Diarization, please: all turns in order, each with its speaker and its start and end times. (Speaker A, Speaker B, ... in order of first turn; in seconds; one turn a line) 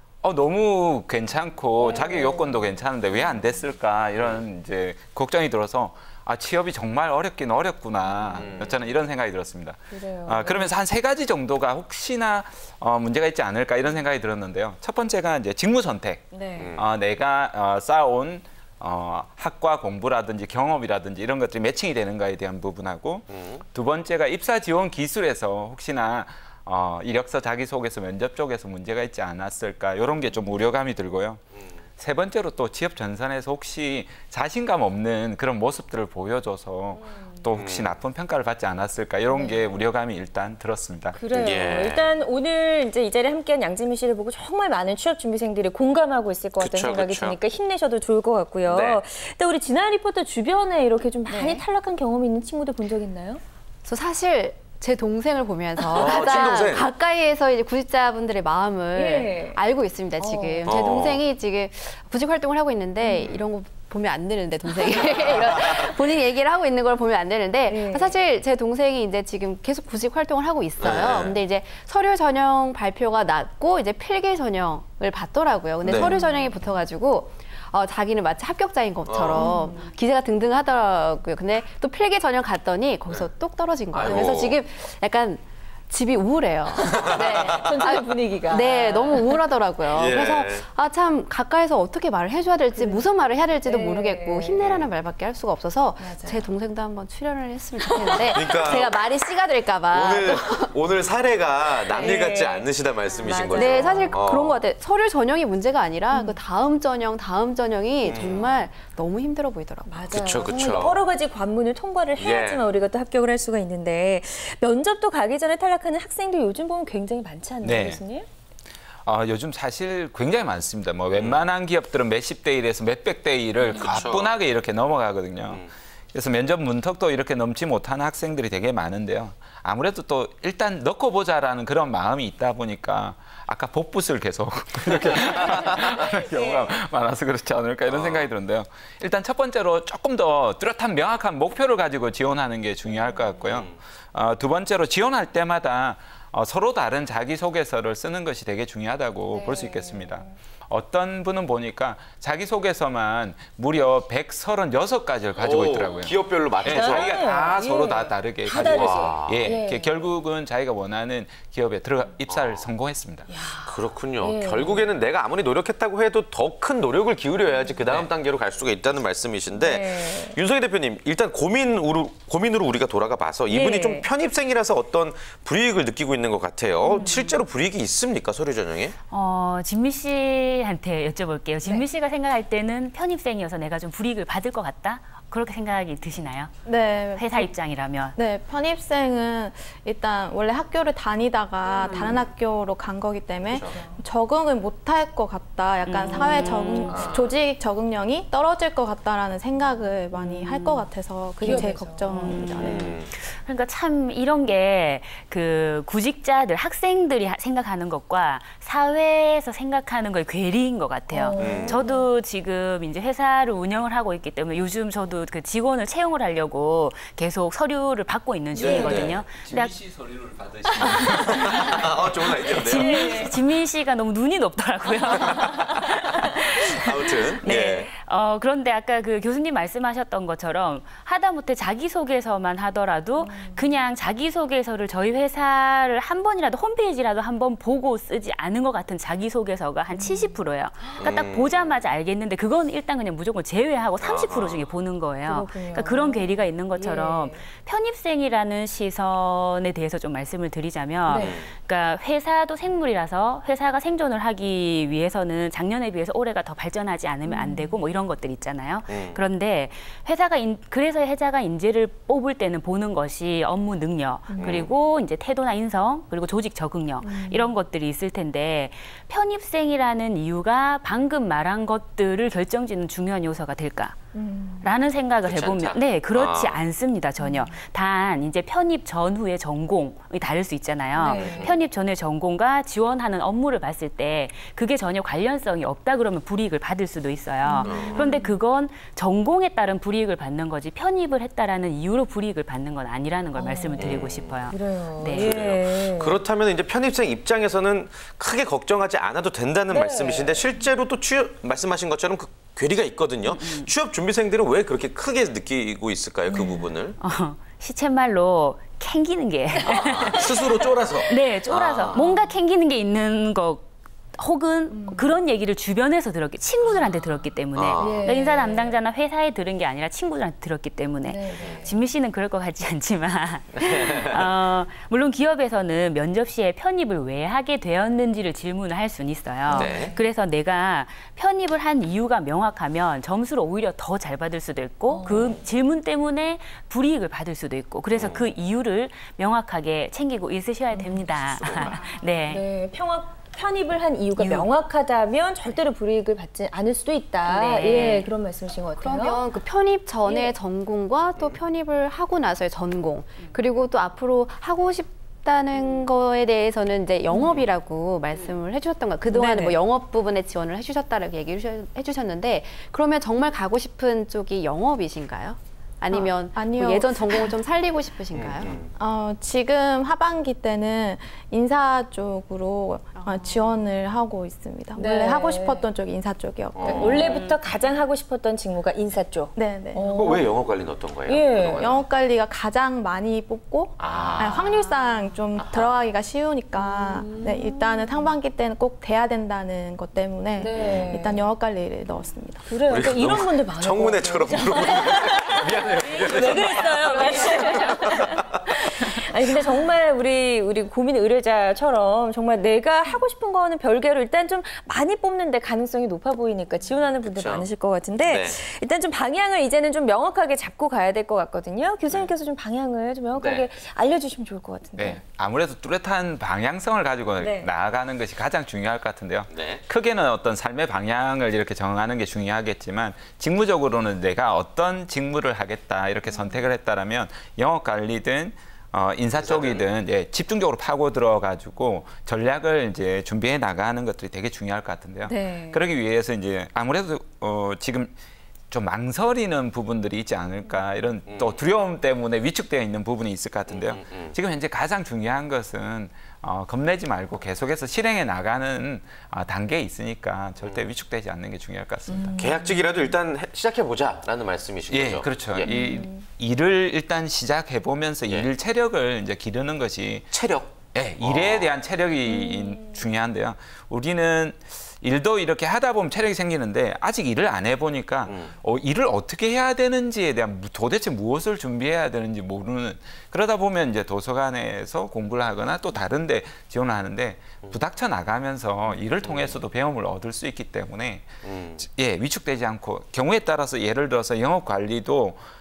Speaker A: 0.2-31.4
Speaker B: 1.8-2.5
Speaker C: 8.3-8.8
Speaker B: 9.9-10.7
Speaker B: 16.3-16.7
Speaker C: 16.6-16.9
Speaker C: 23.3-23.6
Speaker A: 32.0-41.2
Speaker B: 37.0-37.4
Speaker C: 37.5-38.0
Speaker B: 39.3-39.6
Speaker B: 41.1-53.4
Speaker C: 41.3-42.1
Speaker C: 46.6-47.4
Speaker C: 48.6-49.0
Speaker D: 51.3-51.6
Speaker E: 53.8-100.7
Speaker C: 55.9-56.9
Speaker B: 55.9-56.3
Speaker B: 58.9-59.6
Speaker B: 60.2-60.8
Speaker C: 60.6-61.2
Speaker C: 65.1-65.8
Speaker B: 67.7-68.2
Speaker C: 70.8-71.3
Speaker C: 75.8-76.2
Speaker B: 75.9-76.6
Speaker C: 79.1-79.5
Speaker B: 79.3-79.9
Speaker C: 83.9-84.6
Speaker C: 86.8-87.6
Speaker B: 86.9-89.4
Speaker C: 89.9-90.7
Speaker B: 92.7-93.1
Speaker B: 93.6-94.6
Speaker C: 94.6-94.9
Speaker B: 96.0-96.5
Speaker B: 97.8-98.5
Speaker C: 98.3-99.0
Speaker C: 99.9-104.6
Speaker E: 101.9-102.5
Speaker B: 101.9-104.2
Speaker E: 103.5-110.0
Speaker C: 108.0-108.6
Speaker B: 109.8-118.2
Speaker C: 110.1-111.0
Speaker C: 112.2-112.6
Speaker A: 117.6-118.0
Speaker A: 119.0-163.3
Speaker C: 121.1-121.4
Speaker C: 123.7-124.3
Speaker B: 136.1-136.6
Speaker C: 137.9-138.3
Speaker C: 143.5-143.7
Speaker B: 149.3-150.3
Speaker C: 155.4-157.1
Speaker B: 156.6-160.0
Speaker C: 158.6-159.5
Speaker C: 162.3-162.6
Speaker B: 163.3-164.8
Speaker C: 163.6-178.9
Speaker B: 169.5-170.4
Speaker B: 173.5-174.1
Speaker F: 179.1-186.5
Speaker D: 186.7-187.5
Speaker F: 187.1-188.2
Speaker D: 188.2-202.9
Speaker F: 191.8-192.2
Speaker B: 191.9-192.2
Speaker C: 193.4-193.8
Speaker B: 193.7-194.0
Speaker F: 195.8-197.0
Speaker B: 196.1-196.8
Speaker C: 196.9-197.3
Speaker F: 200.1-200.9
Speaker B: 201.4-202.6
Speaker F: 201.5-219.7
Speaker C: 202.6-203.1
Speaker B: 211.1-212.1
Speaker C: 211.4-211.8
Speaker B: 218.5-219.1
Speaker C: 218.6-219.2
Speaker A: 219.2-222.1
Speaker F: 221.2-221.7
Speaker C: 221.2-223.1
Speaker F: 222.4-274.0
Speaker B: 222.7-223.3
Speaker C: 226.7-227.9
Speaker B: 233.2-233.6
Speaker B: 239.9-240.4
Speaker C: 241.0-241.6
Speaker C: 244.0-244.7
Speaker B: 245.2-247.4
Speaker B: 251.1-251.4
Speaker C: 251.1-251.5
Speaker B: 257.2-257.8
Speaker C: 258.9-259.2
Speaker B: 264.3-264.6
Speaker C: 264.4-264.7
Speaker B: 267.0-267.5
Speaker B: 274.1-274.7
Speaker F: 274.6-295.3
Speaker C: 275.2-276.6
Speaker B: 277.2-277.6
Speaker B: 280.9-281.5
Speaker C: 281.1-281.6
Speaker B: 287.4-288.4
Speaker C: 287.6-288.1
Speaker B: 293.4-293.9
Speaker C: 293.8-294.4
Speaker B: 294.5-296.2
Speaker C: 295.1-307.0
Speaker B: 299.7-300.4
Speaker F: 303.2-303.7
Speaker F: 307.0-342.4
Speaker B: 309.7-310.2
Speaker C: 309.8-312.1
Speaker B: 314.7-315.1
Speaker C: 317.5-318.1
Speaker B: 317.8-318.8
Speaker B: 321.0-321.7
Speaker C: 323.5-324.2
Speaker B: 329.4-330.0
Speaker C: 329.5-329.9
Speaker B: 334.9-335.4
Speaker C: 337.9-338.2
Speaker B: 340.7-341.0
Speaker C: 341.3-341.8
Speaker B: 342.3-349.2
Speaker F: 344.1-344.5
Speaker F: 347.2-348.1
Speaker E: 347.7-348.1
Speaker E: 348.8-368.6
Speaker B: 350.1-350.3
Speaker D: 359.1-359.6
Speaker D: 365.9-367.3
Speaker C: 368.1-368.7
Speaker D: 368.8-377.1
Speaker E: 373.0-373.3
Speaker B: 374.7-375.7
Speaker C: 376.6-377.2
Speaker B: 376.6-380.3
Speaker F: 377.0-377.4
Speaker D: 379.4-379.8
Speaker C: 379.8-381.8
Speaker B: 381.1-381.7
Speaker D: 381.6-392.6
Speaker C: 383.8-384.6
Speaker C: 385.4-385.7
Speaker B: 386.6-387.8
Speaker B: 390.4-391.2
Speaker C: 390.5-390.9
Speaker B: 392.5-415.0
Speaker C: 392.6-398.4
Speaker C: 407.0-407.5
Speaker C: 408.0-408.4
Speaker C: 413.1-413.5
Speaker A: 414.8-437.9
Speaker B: 417.2-417.5
Speaker C: 419.3-419.6
Speaker C: 429.2-429.6
Speaker B: 435.1-435.6
Speaker A: 438.5-452.2
Speaker C: 441.1-441.4
Speaker C: 443.5-444.1
Speaker B: 451.9-452.3
Speaker C: 452.1-455.5
Speaker A: 454.7-485.2
Speaker B: 455.4-456.0
Speaker C: 460.1-461.5
Speaker C: 468.1-468.3
Speaker C: 479.0-479.4
Speaker C: 481.2-481.6